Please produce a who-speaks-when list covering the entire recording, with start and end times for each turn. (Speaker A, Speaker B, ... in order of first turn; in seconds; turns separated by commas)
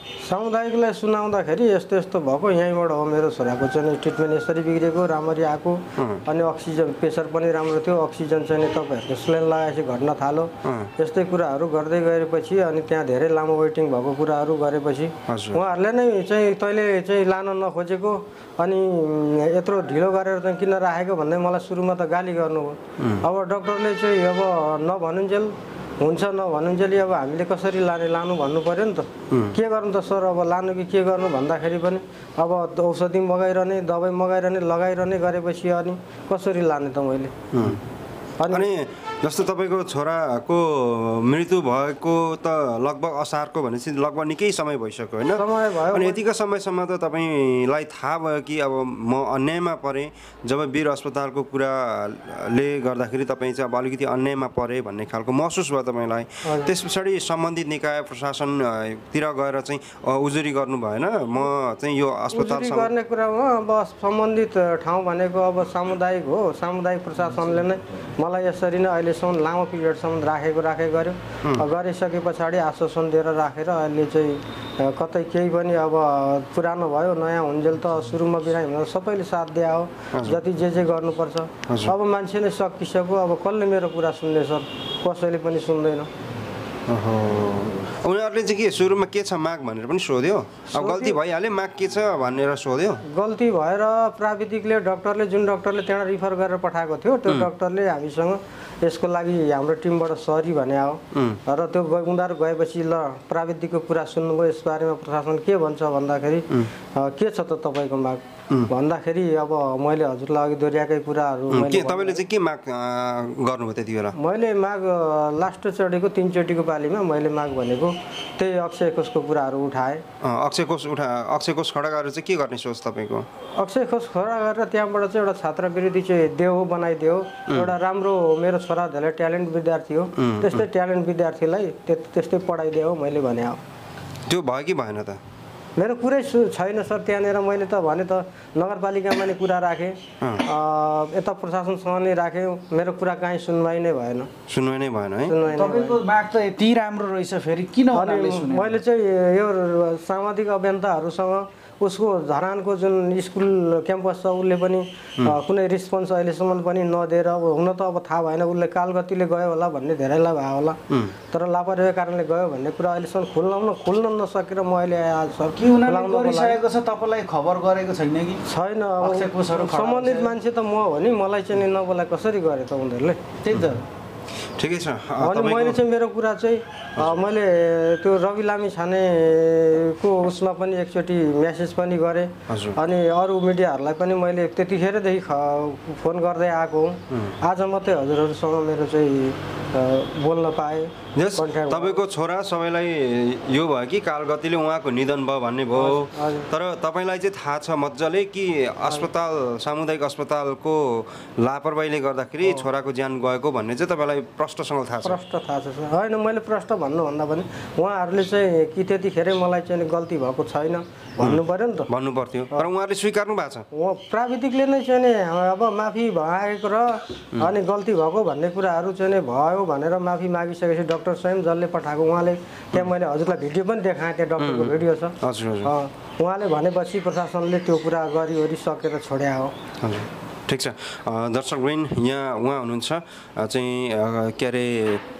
Speaker A: 0.2-37.3, Speaker B: 6.0-6.2, Speaker B: 10.6-10.9, Speaker B: 15.3-15.6, Speaker B: 23.0-23.2, Speaker B: 29.3-29.6, Speaker B: 37.5-37.8, Speaker A: 38.4-38.6, Speaker B: 38.5-62.9, Speaker A: 45.3-46.2, Speaker A: 56.5-56.7, Speaker A: 62.3-86.1, Speaker B: 80.1-80.4, Speaker B: 81.7-82.0, Speaker B: 86.9-93.0, Speaker A: 90.7-91.2, Speaker A: 93.1-112.2, Speaker B: 101.1-101.4, Speaker B: 111.5-114.2, Speaker A: 114.2-120.0, Speaker B: 120.2-123.3, Speaker A: 123.6-133.6, Speaker B: 130.2-130.6, Speaker B: 134.3-135.2, Speaker A: 135.8-144.3, Speaker B: 144.5-145.3, Speaker A: 145.2-146.0, Speaker C: 145.5-148.8, Speaker A: 147.9-166.6, Speaker B: 160.9-161.2, Speaker C: 165.6-168.4, Speaker A: 168.5-173.2, Speaker C: 169.0-170.3, Speaker C: 173.4-173.8, Speaker B: 174.6-175.8, Speaker A: 175.2-192.0, Speaker B: 182.5-182.8, Speaker B: 187.1-187.4, Speaker B: 191.2-205.2, Speaker A: 195.7-196.5, Speaker A: 205.0-211.9, Speaker B: 211.2-213.7, Speaker A: 213.7-229.5, Speaker B: 224.4-225.7, Speaker B: 229.8-235.0